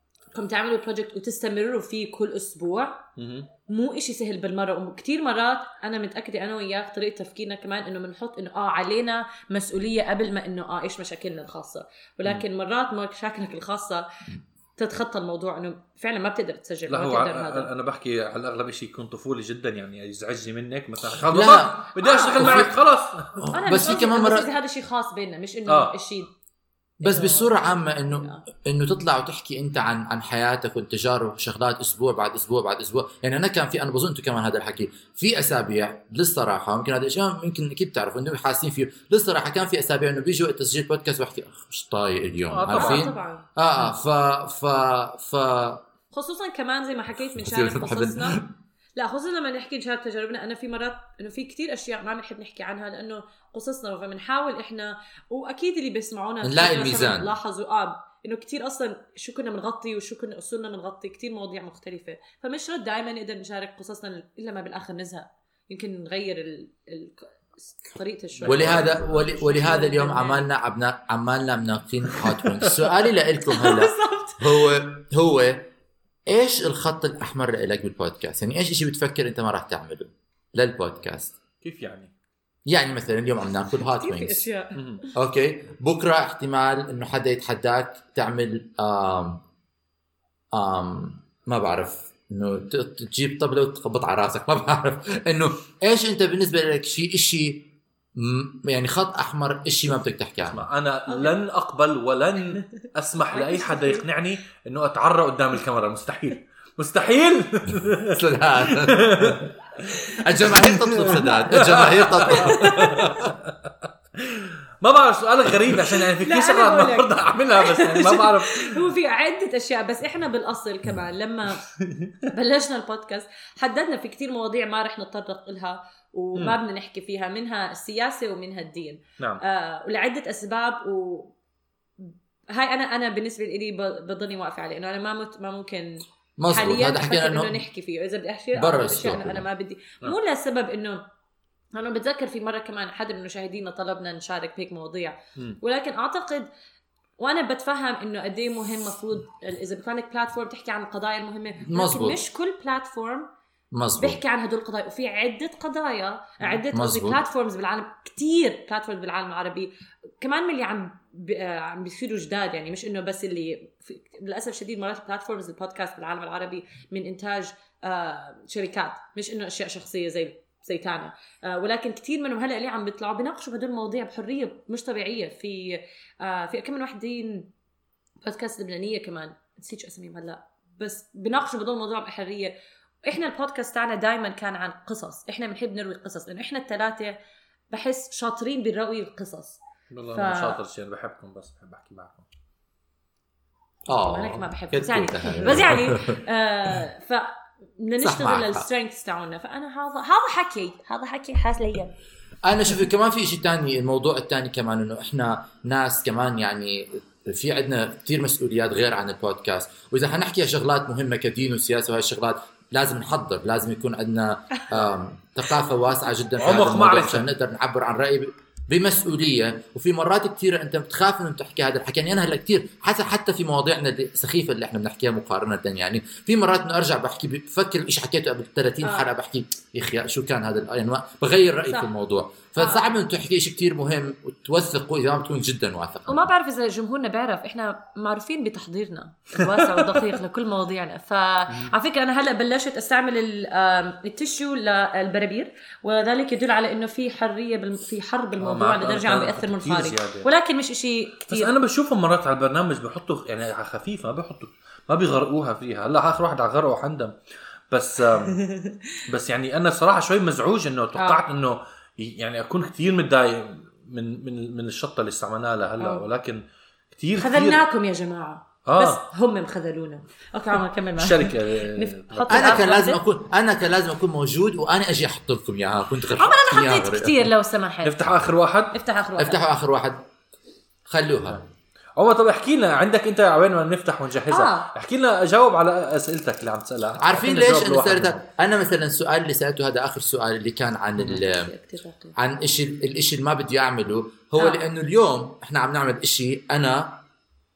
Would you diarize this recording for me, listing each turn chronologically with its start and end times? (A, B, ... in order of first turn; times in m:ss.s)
0:00.3-0:03.0 A
0:03.2-0:03.5 B
0:03.7-0:14.1 A
0:14.8-0:17.7 A
0:16.9-0:23.5 B
0:21.2-0:22.7 C
0:22.0-0:22.7 A
0:23.4-0:24.5 C
0:23.5-0:26.3 A
0:25.7-0:25.9 B
0:27.0-0:45.8 C
0:27.0-0:28.4 A
0:42.5-0:43.1 B
0:42.7-0:43.5 A
0:46.1-0:48.4 A
0:47.4-0:48.5 C
0:49.0-1:10.5 A
0:56.4-0:57.3 C
1:08.4-1:09.3 B
1:08.5-1:15.7 C
1:13.4-1:14.6 A
1:16.3-1:21.3 C
1:21.6-1:22.1 B
1:22.7-1:24.5 C
1:23.9-1:24.8 A
1:24.8-1:25.0 B
1:25.2-1:29.4 C
1:30.5-1:40.7 C
1:40.4-1:58.9 B
1:41.1-1:41.4 A
1:42.5-1:44.0 A
1:48.0-1:49.5 C
1:50.1-1:53.3 C
1:52.3-1:53.2 A
1:56.0-2:01.6 A
2:02.3-2:11.4 A
2:12.0-2:21.0 A
2:16.4-2:17.6 C
2:18.6-2:19.4 C
2:21.7-2:26.5 A
2:27.2-2:33.3 A
2:31.6-2:32.2 C
2:33.7-2:34.2 C
2:34.0-2:57.5 A
2:36.7-2:37.2 C
2:58.2-3:07.2 A
3:07.7-3:09.6 A
3:09.9-3:12.3 B
3:10.1-3:10.6 A
3:13.9-3:16.2 C
3:14.0-3:21.9 A
3:18.0-3:18.7 C
3:22.4-3:56.3 C
3:36.4-3:37.3 B
3:48.8-3:49.1 A
3:52.6-3:53.0 A
3:56.1-4:11.5 A
4:08.4-4:10.3 B
4:11.3-4:17.2 B
4:17.7-4:18.4 B
4:18.3-4:19.0 A
4:19.1-4:27.6 B
4:21.0-4:21.2 A
4:25.8-4:26.0 A
4:27.2-4:33.0 A
4:28.7-4:29.0 B
4:31.0-4:32.6 B
4:32.3-4:37.3 C
4:36.1-4:38.0 A
4:37.8-4:38.8 B
4:38.7-4:39.4 A
4:39.2-4:40.0 C
4:40.9-4:41.4 C
4:42.0-4:48.2 B
4:44.3-4:44.7 A
4:47.0-4:51.5 C
4:51.2-4:52.1 A
4:52.2-4:57.0 C